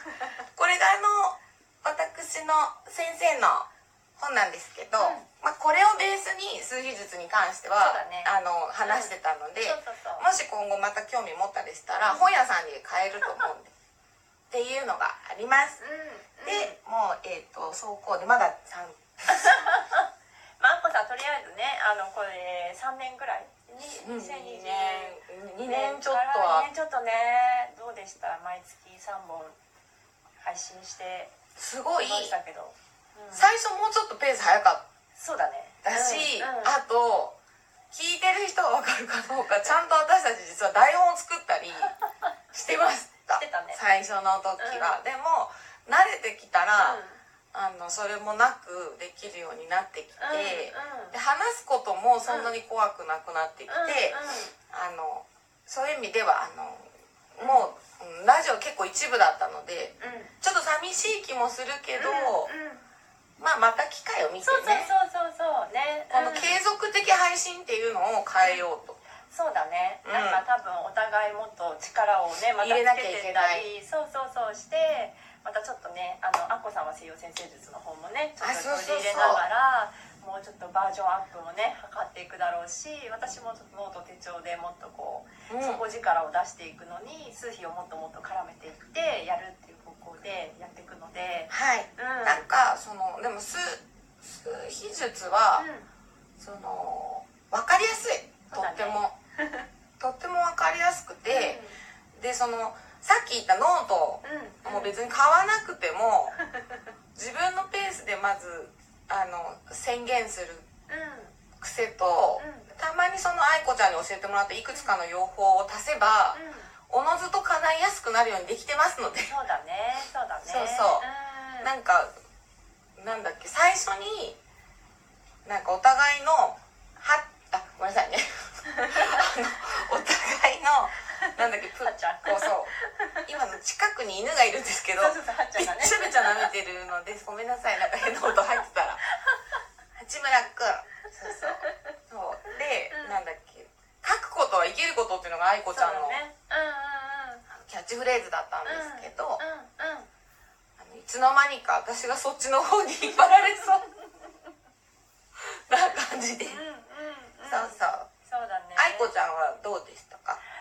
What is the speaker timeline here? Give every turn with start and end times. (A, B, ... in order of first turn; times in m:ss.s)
0:00.6-0:13.7 A
0:05.0-0:05.3 B
0:07.7-0:10.3 B
0:11.9-0:12.3 B
0:14.5-0:15.8 A
0:15.8-0:16.8 B
0:16.4-0:19.0 A
0:19.3-0:20.1 B
0:20.6-0:29.6 B
0:24.0-0:26.7 A
0:30.4-0:31.3 B
0:31.6-0:32.4 A
0:32.0-0:33.5 B
0:33.3-0:34.8 A
0:35.2-0:36.8 B
0:35.8-0:37.4 A
0:37.9-0:41.9 A
0:42.5-0:47.0 A
0:43.4-0:43.8 B
0:44.6-0:45.0 B
0:46.8-0:47.2 B
0:47.5-1:02.5 A
0:50.2-0:51.2 B
0:52.2-0:52.5 B
0:53.7-0:54.5 B
0:57.4-0:57.7 B
1:00.0-1:00.3 B
1:02.0-1:02.8 B
1:03.4-1:04.9 A
1:04.4-1:06.6 B
1:06.1-1:09.0 A
1:08.4-1:08.6 B
1:09.3-1:32.4 B
1:10.0-1:10.4 A
1:12.6-1:13.7 A
1:18.4-1:19.4 A
1:25.5-1:25.8 A
1:31.5-1:35.7 A
1:35.6-1:35.9 B
1:36.4-1:39.1 A
1:38.5-1:39.6 B
1:40.0-1:41.6 A
1:41.3-1:41.8 B
1:42.2-1:46.4 A
1:44.2-1:45.0 B
1:47.2-1:50.7 A
1:50.9-1:51.4 B
1:51.6-1:59.3 A
1:52.4-1:52.7 B
1:56.3-1:56.7 B
1:59.3-2:01.7 B
2:00.4-2:01.1 A
2:01.6-2:02.1 A
2:03.0-2:04.4 A
2:05.4-2:12.7 A
2:08.8-2:09.2 B
2:11.2-2:13.2 B
2:13.3-2:19.0 A
2:15.0-2:16.5 B
2:18.0-2:18.6 B
2:20.0-2:26.2 A
2:21.2-2:21.7 B
2:22.9-2:23.2 B
2:25.7-2:27.4 B
2:27.5-2:29.4 A
2:28.6-2:30.1 B
2:30.8-2:33.8 A
2:35.4-2:36.6 A
2:36.5-2:39.1 B
2:37.5-2:38.1 A
2:38.8-2:40.4 A